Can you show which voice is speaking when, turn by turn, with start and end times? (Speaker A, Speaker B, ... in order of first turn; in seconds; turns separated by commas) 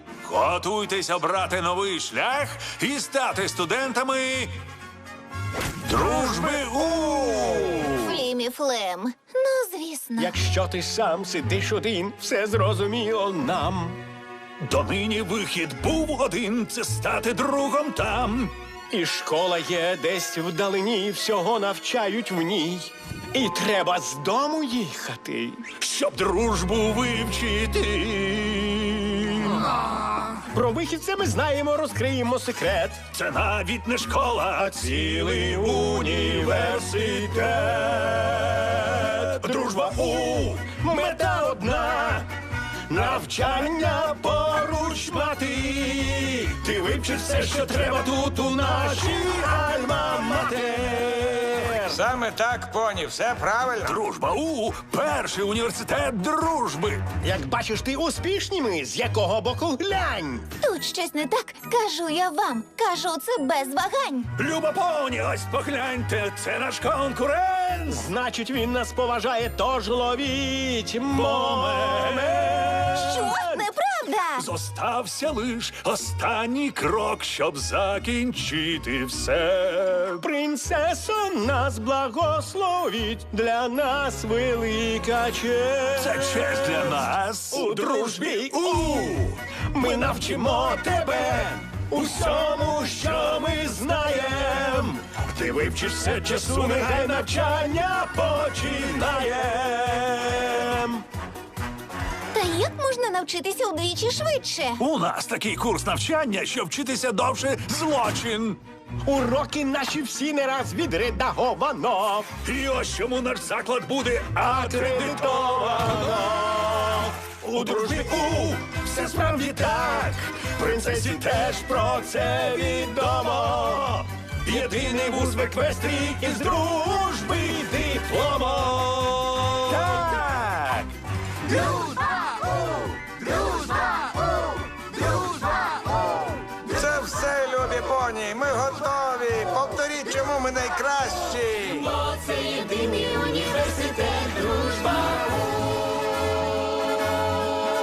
Speaker A: 0.2-4.5, Speaker A: 5.8-8.1, Speaker B: 7.9-10.3, Speaker C: 10.2-14.0, Speaker A: 14.6-18.5, Speaker C: 18.9-25.7, Speaker A: 25.8-29.7, Speaker C: 30.5-33.1, Speaker A: 33.1-37.0, Speaker C: 35.2-42.2, Speaker A: 39.3-40.5, Speaker C: 42.9-52.0, Speaker D: 51.9-54.0, Speaker A: 53.8-57.0, Speaker C: 57.2-60.5, Speaker B: 60.6-64.3, Speaker A: 64.4-68.1, Speaker C: 67.9-73.6, Speaker A: 71.1-72.9, Speaker B: 72.9-74.5, Speaker A: 74.4-80.2, Speaker C: 80.1-101.0, Speaker A: 85.9-88.5, Speaker B: 102.3-104.8, Speaker A: 104.8-108.6, Speaker C: 109.0-112.3, Speaker A: 112.4-116.2, Speaker C: 114.4-130.1, Speaker A: 117.6-118.1, Speaker A: 129.7-130.9, Speaker D: 136.7-141.9, Speaker C: 141.8-145.4